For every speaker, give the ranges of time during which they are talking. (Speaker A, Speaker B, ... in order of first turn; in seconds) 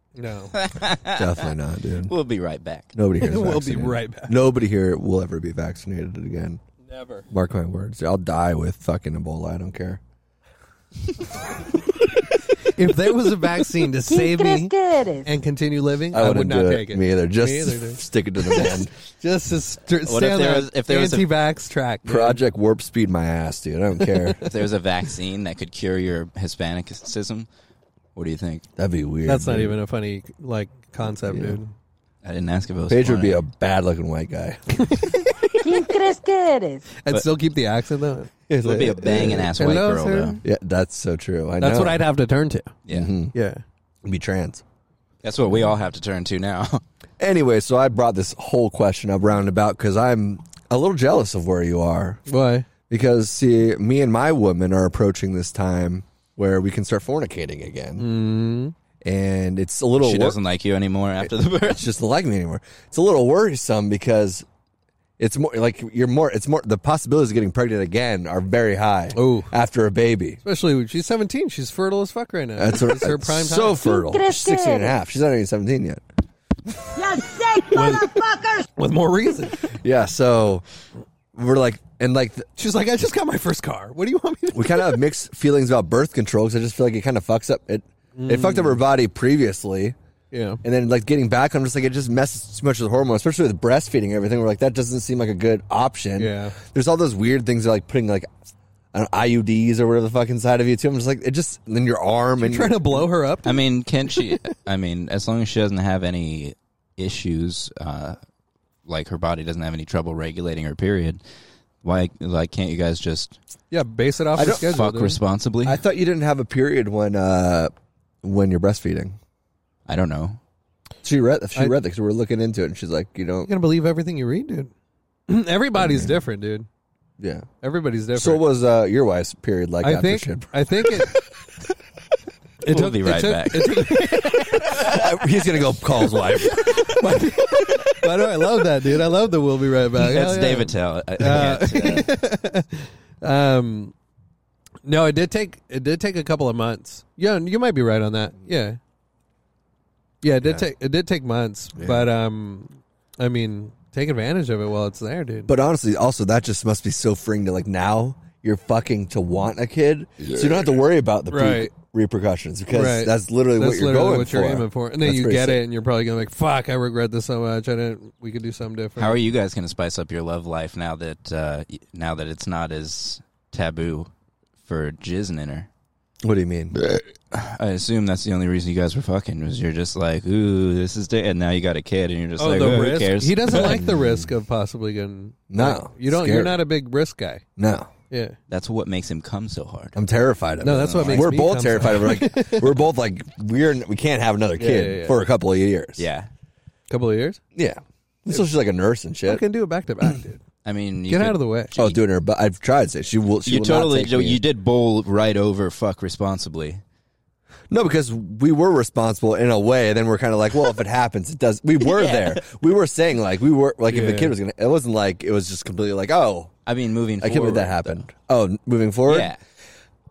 Speaker A: 0.1-0.5, 3.2-4.3, 6.8-7.3, 12.6-14.7, 15.2-22.4, 29.2-31.7, 37.0-38.3, 39.5-40.4, 41.6-42.7, 43.3-43.6, 52.3-52.7, 58.0-58.7, 69.1-69.5, 70.4-73.8, 77.7-78.2, 78.8-79.7, 82.6-85.0, 88.2-88.8, 90.3-90.6, 96.2-96.5, 102.4-103.6, 113.7-115.2, 123.5-124.7, 125.3-126.7, 127.6-128.4, 129.8-131.1, 132.6-134.9, 136.9-137.4, 138.0-143.9, 144.8-148.8, 150.2-155.5, 161.3-161.7, 162.7-169.2, 182.4-187.4, 188.1-188.4, 190.6-192.8, 194.6-195.2, 196.9-197.4, 199.2-200.4, 201.1-201.7, 213.9-214.3
Speaker B: 0.5-1.5, 2.1-2.9, 20.0-21.3, 24.4-27.5, 28.1-28.6, 32.2-33.4, 38.6-40.4, 42.9-43.1, 45.2-46.8, 60.0-61.9, 103.4-108.2, 108.8-111.2, 111.8-113.4, 114.4-115.8, 119.9-120.4, 132.7-134.0, 140.0-142.1, 169.0-174.1, 174.6-175.7, 177.3-183.8, 188.5-190.0, 190.7-191.3, 196.0-196.3, 200.6-202.0, 203.4-206.8, 211.8-212.4, 216.7-218.0, 219.1-219.4
Speaker C: 1.1-2.1, 2.9-6.6, 7.3-10.0, 16.1-18.9, 22.0-24.4, 28.8-29.8, 31.3-31.6, 32.9-35.0, 38.5-39.8, 40.4-42.0, 42.9-43.3, 44.0-44.6, 47.2-52.2, 52.9-58.1, 59.0-60.4, 61.2-64.5, 65.2-70.4, 72.6-76.0, 76.7-77.0, 79.8-80.6, 81.3-82.5, 84.5-90.0, 90.6-98.3, 98.9-103.1, 114.3-114.8, 115.6-119.2, 121.0-123.5, 125.8-126.1, 127.2-127.5, 128.1-131.0, 134.6-137.9, 150.4-150.7, 151.8-152.1, 155.5-165.6, 176.2-176.8, 183.5-184.3, 185.5-186.6, 187.6-187.9, 189.9-196.0, 197.5-199.4, 201.8-204.4, 207.7-216.5, 217.2-219.3
Speaker D: 14.1-15.3, 35.6-36.9, 73.7-74.9, 77.2-77.9